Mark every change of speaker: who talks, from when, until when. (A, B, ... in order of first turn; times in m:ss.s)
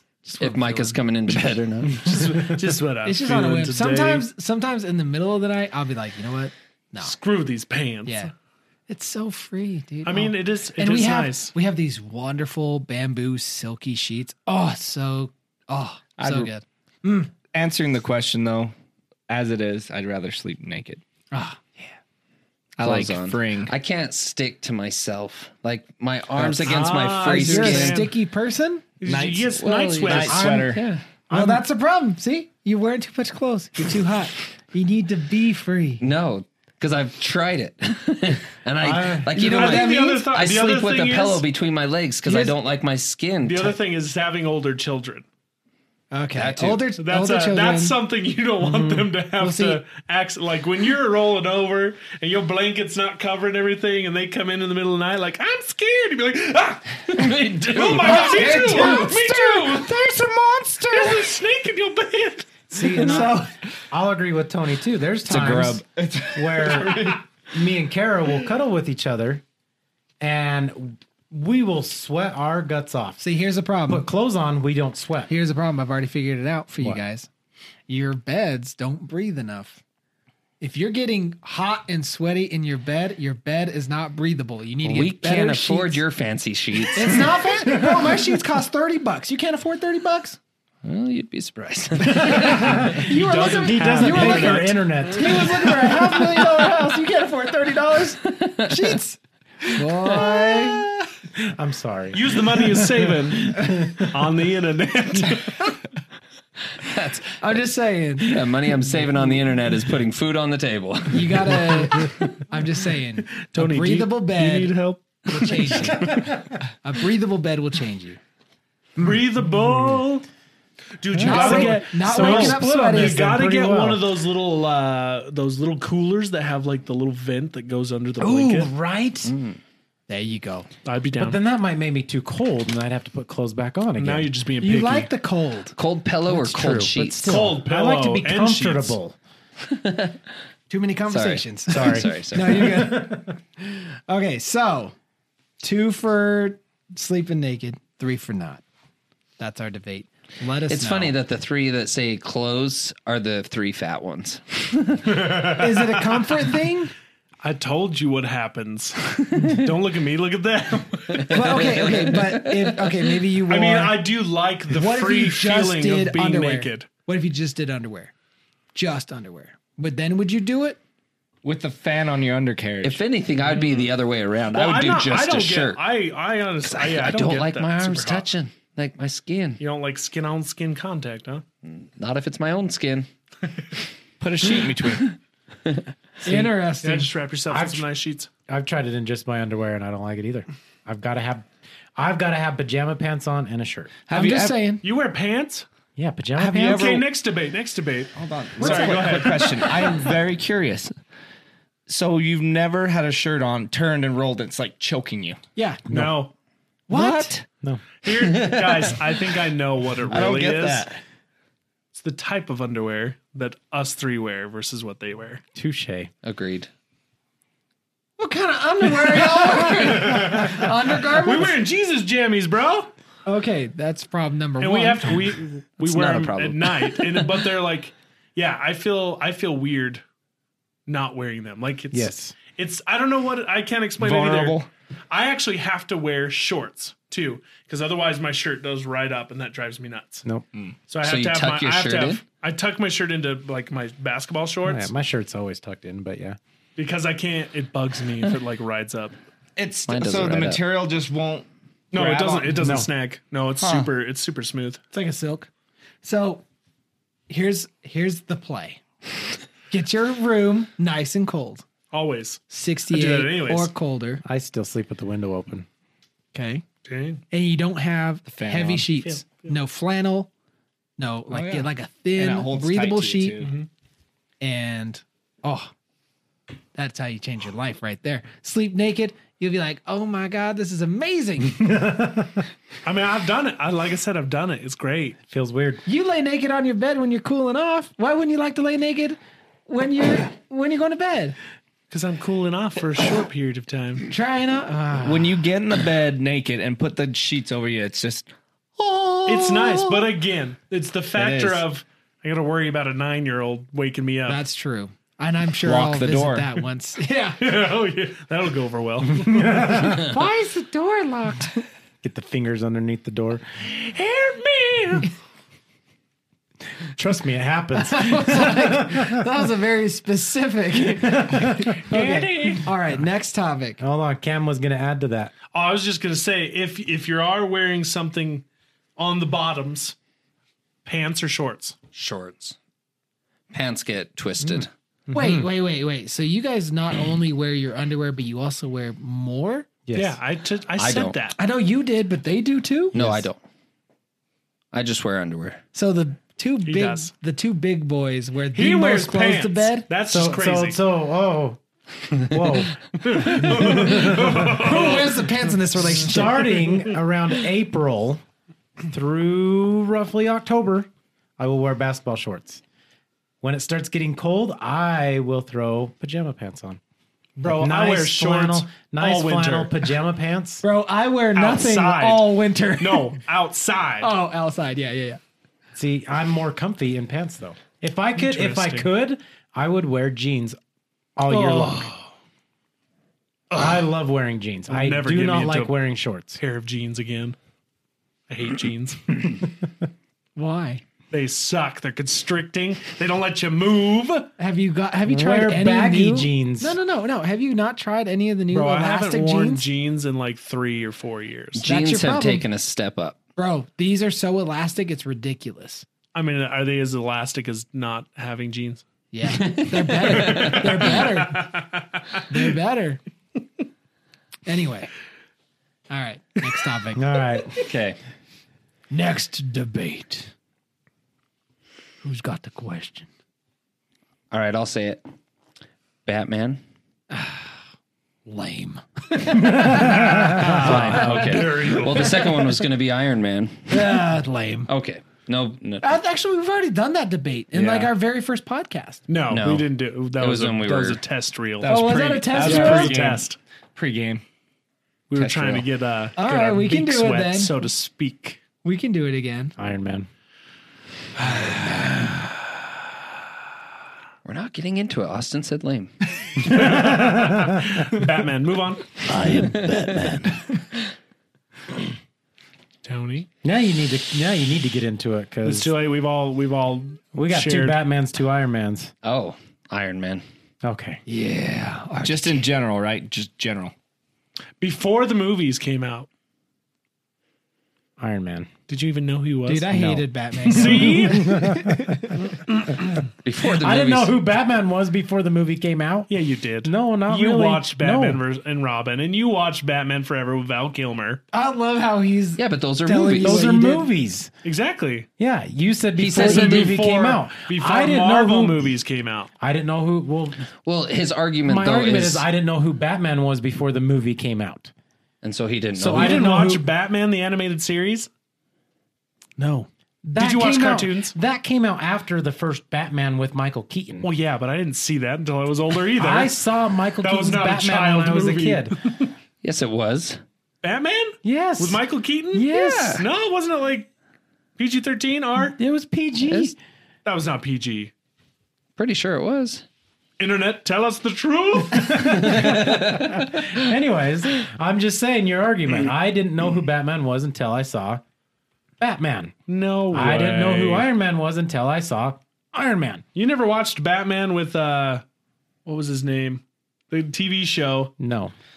0:00.2-0:01.0 A
0:00.4-0:02.4 B
0:02.0-0:04.3 C
0:03.0-0:07.2 A
0:07.0-0:08.3 C
0:08.0-0:08.3 A
0:08.9-0:17.3 A
0:10.0-0:11.6 C
0:16.2-0:16.5 D
0:17.5-0:18.7 D
0:19.3-0:21.0 D
0:21.3-0:21.9 A
0:22.8-0:23.7 D
0:22.8-0:28.1 B
0:26.6-0:28.2 C
0:27.2-0:29.0 A
0:29.0-0:30.5 C
0:29.0-0:30.9 D
0:29.6-0:31.0 B
0:30.1-0:30.7 A
0:31.3-0:36.0 A
0:36.0-0:43.8 B
0:38.8-0:39.3 E
0:39.3-0:40.3 A
0:39.4-0:41.4 C
0:42.2-0:42.6 A
0:43.4-0:45.2 C
0:46.1-0:48.0 A
0:46.3-0:46.8 B
0:47.0-1:00.0 C
0:48.6-0:49.1 E
0:49.4-0:49.8 A
0:57.1-0:58.7 B
0:57.9-0:59.3 A
0:58.6-1:01.2 D
1:00.9-1:02.6 C
1:02.7-1:05.8 E
1:02.8-1:03.5 A
1:05.3-1:07.2 D
1:06.3-1:09.4 E
1:10.2-1:13.2 E
1:13.2-1:14.1 A
1:13.9-1:15.3 E
1:15.3-1:17.3 A
1:17.9-1:19.8 A
1:20.6-1:26.0 A
1:24.8-1:27.5 B
1:26.9-1:30.4 A
1:27.7-1:28.2 E
1:30.8-1:32.9 B
1:32.0-1:36.6 E
1:32.2-1:40.9 A
1:32.7-1:35.0 C
1:38.3-1:39.0 B
1:40.1-1:40.4 B
1:41.4-1:44.1 E
1:42.1-1:45.7 C
1:46.8-1:47.3 B
1:47.4-1:49.0 A
1:48.2-1:52.2 B
1:51.1-1:58.2 A
1:53.4-1:56.3 C
1:59.0-2:00.3 C
1:59.0-2:00.0 E
2:01.0-2:08.7 C
2:01.1-2:04.0 E
2:01.2-2:03.4 A
2:08.2-2:09.3 E
2:09.2-2:09.6 B
2:10.1-2:10.7 A
2:10.8-2:11.4 C
2:11.2-2:14.3 E
2:14.0-2:15.1 C
2:14.6-2:15.7 A
2:15.8-2:17.5 B
2:16.3-2:19.2 E
2:17.2-2:19.0 C
2:19.6-2:20.2 B
2:20.7-2:25.0 A
2:21.1-2:22.8 B
2:21.7-2:23.3 E
2:25.6-2:28.6 A
2:29.4-2:31.2 A
2:30.7-2:35.1 B
2:35.0-2:36.4 C
2:35.6-2:36.9 A
2:37.4-2:41.7 C
2:41.1-2:43.2 B
2:41.3-2:44.0 A
2:43.5-2:46.9 C
2:44.7-2:48.1 A
2:48.7-2:50.8 A
2:51.4-2:53.0 D
2:52.8-2:55.8 B
2:53.5-2:53.9 C
2:54.5-2:58.3 C
2:56.7-2:59.6 B
2:59.6-3:01.4 C
3:01.6-3:03.1 B
3:04.2-3:05.1 D
3:06.2-3:07.1 A
3:06.8-3:08.3 C
3:07.5-3:07.9 E
3:08.5-3:14.0 E
3:14.1-3:14.6 D
3:14.1-3:14.8 A
3:14.8-3:15.7 C
3:16.0-3:16.8 E
3:16.4-3:17.1 A
3:16.5-3:19.8 C
3:18.2-3:20.9 D
3:18.6-3:19.9 A
3:21.9-3:25.4 D
3:25.6-3:25.9 A
3:25.9-3:26.3 C
3:26.9-3:27.4 D
3:26.9-3:27.4 A
3:28.0-3:30.8 C
3:30.1-3:31.0 D
3:31.9-3:35.4 C
3:35.6-3:36.1 E
3:36.2-3:36.7 B
3:38.2-3:41.6 A
3:39.2-3:42.9 C
3:43.3-3:45.3 A
3:44.6-3:50.0 C
3:45.8-3:47.1 B
3:50.9-3:54.6 C
3:51.9-3:52.4 E
3:54.0-3:54.7 D
3:55.1-4:00.2 C
4:00.9-4:04.9 C
4:01.0-4:02.2 B
4:04.6-4:06.4 E
4:06.8-4:09.2 C
4:09.6-4:12.6 D
4:09.9-4:10.6 B
4:11.9-4:14.8 C
4:12.6-4:12.9 E
4:13.6-4:13.9 D
4:14.9-4:15.5 A
4:16.0-4:16.4 A
4:17.3-4:18.8 A
4:19.7-4:21.7 A
4:21.9-4:23.7 C
4:22.5-4:24.2 A
4:24.2-4:25.7 E
4:26.3-4:26.6 A
4:26.9-4:27.2 C
4:27.3-4:30.3 A
4:28.3-4:28.8 D
4:29.0-4:29.5 C
4:31.0-4:33.5 A
4:31.3-4:33.5 D
4:33.4-4:33.7 C
4:34.4-4:35.7 A
4:36.8-4:41.6 A
4:41.5-4:42.5 E
4:42.8-4:45.2 C
4:45.3-4:45.8 E
4:45.9-4:51.4 A
4:51.9-4:54.1 C
4:54.1-4:55.5 A
4:55.0-4:59.8 D
4:59.3-5:04.4 C
5:01.2-5:01.6 D
5:04.3-5:07.4 A
5:05.6-5:06.5 D
5:07.4-5:09.6 C
5:09.2-5:10.1 E
5:09.8-5:11.6 A
5:12.0-5:13.4 E
5:13.7-5:15.1 C
5:17.0-5:19.2 E
5:17.8-5:23.8 A
5:21.0-5:21.8 E
5:21.9-5:22.7 C
5:23.8-5:25.3 E
5:25.5-5:28.4 C
5:29.0-5:30.0 C
5:30.8-5:31.8 C
5:31.9-5:32.6 B
5:33.5-5:34.7 B
5:34.4-5:35.5 E
5:35.1-5:39.8 A
5:39.9-5:40.2 E
5:39.9-5:41.4 C
5:40.8-5:41.2 B
5:41.4-5:43.0 A
5:42.9-5:43.2 E
5:42.9-5:43.4 B
5:44.7-5:45.6 B
5:45.7-5:49.9 A
5:46.6-5:47.1 C
5:48.5-5:50.8 C
5:50.1-5:51.6 E
5:52.2-5:54.8 E
5:53.0-5:55.3 C
5:54.5-5:56.5 A
5:55.8-5:58.2 E
5:56.2-5:56.9 C
5:58.9-6:02.6 E
6:03.4-6:06.8 E
6:07.4-6:09.9 C
6:07.4-6:10.6 E
6:10.6-6:13.2 A
6:11.4-6:14.1 C
6:14.0-6:15.2 A
6:15.8-6:20.6 E
6:18.2-6:18.9 C
6:21.2-6:21.9 E
6:21.3-6:22.1 C
6:23.5-6:26.4 E
6:24.7-6:25.8 C
6:26.4-6:27.4 C
6:28.3-6:29.4 C
6:30.4-6:30.8 A
6:31.1-6:34.3 C
6:34.4-6:39.7 A
6:35.1-6:36.8 E
6:38.5-6:41.6 C
6:41.6-6:43.2 B
6:41.6-6:42.5 A
6:43.4-6:45.9 A
6:46.1-6:48.8 C
6:49.1-6:51.6 A
6:49.2-6:50.9 B
6:50.2-6:52.2 C
6:52.3-6:53.0 A
6:54.5-6:54.9 A
6:55.9-6:57.1 A
6:57.0-6:57.6 E
6:57.6-6:58.0 B
6:58.9-7:00.3 A
7:02.0-7:03.1 A
7:04.3-7:05.0 B
7:06.1-7:06.6 B
7:07.1-7:07.6 A
7:08.3-7:11.5 A
7:09.5-7:11.0 E
7:09.7-7:12.4 C
7:09.7-7:14.0 B
7:13.7-7:14.7 A
7:14.7-7:16.0 B
7:15.8-7:19.1 A
7:17.5-7:17.9 D
7:19.1-7:23.4 C
7:19.3-7:21.0 B
7:21.6-7:24.2 D
7:21.6-7:23.1 A
7:25.1-7:28.4 C
7:25.1-7:25.7 D
7:26.2-7:27.6 A
7:28.6-7:29.6 A
7:29.6-7:30.1 E
7:31.2-7:32.3 A
7:34.2-7:35.9 B
7:36.4-7:39.0 C
7:36.5-7:37.8 E
7:39.1-7:40.4 D
7:39.7-7:40.1 B
7:42.8-7:43.3 C
7:43.4-7:45.7 E
7:45.4-7:47.8 C
7:47.1-7:48.9 E
7:49.0-7:50.2 B
7:50.6-7:51.0 E
7:51.1-7:52.4 A
7:52.0-7:53.7 D
7:54.6-7:56.1 C
7:58.0-7:58.5 E
7:58.7-7:59.7 C
7:59.5-8:02.1 A
7:59.7-8:02.2 E
8:00.5-8:01.3 C
8:03.2-8:04.1 B
8:03.4-8:06.1 E
8:06.1-8:11.2 C
8:06.6-8:08.2 E
8:11.3-8:13.9 A
8:12.4-8:13.4 B
8:13.2-8:14.3 E
8:14.4-8:15.1 C
8:15.2-8:18.7 E
8:16.0-8:16.9 B
8:16.1-8:19.3 C
8:19.4-8:20.5 E
8:20.6-8:22.2 B
8:21.4-8:24.7 E
8:25.2-8:26.3 B
8:25.8-8:26.7 E
8:25.9-8:28.1 C
8:29.4-8:29.7 A
8:30.1-8:34.1 E
8:30.2-8:31.2 C
8:34.0-8:36.4 C
8:36.0-8:38.8 E
8:37.0-8:39.1 C
8:39.4-8:40.2 B
8:40.6-8:43.9 C
8:41.2-8:41.8 E
8:42.3-8:43.0 E
8:42.5-8:43.0 B
8:44.6-8:45.6 C
8:45.5-8:46.6 E
8:47.0-8:47.9 C
8:48.8-8:49.6 B
8:50.2-8:52.4 C
8:51.7-8:58.0 E
8:52.4-8:53.2 B
8:58.8-8:59.3 E
8:59.5-9:00.9 C
8:59.9-9:03.0 E
9:03.2-9:05.0 C
9:05.7-9:07.9 C
9:08.0-9:08.3 E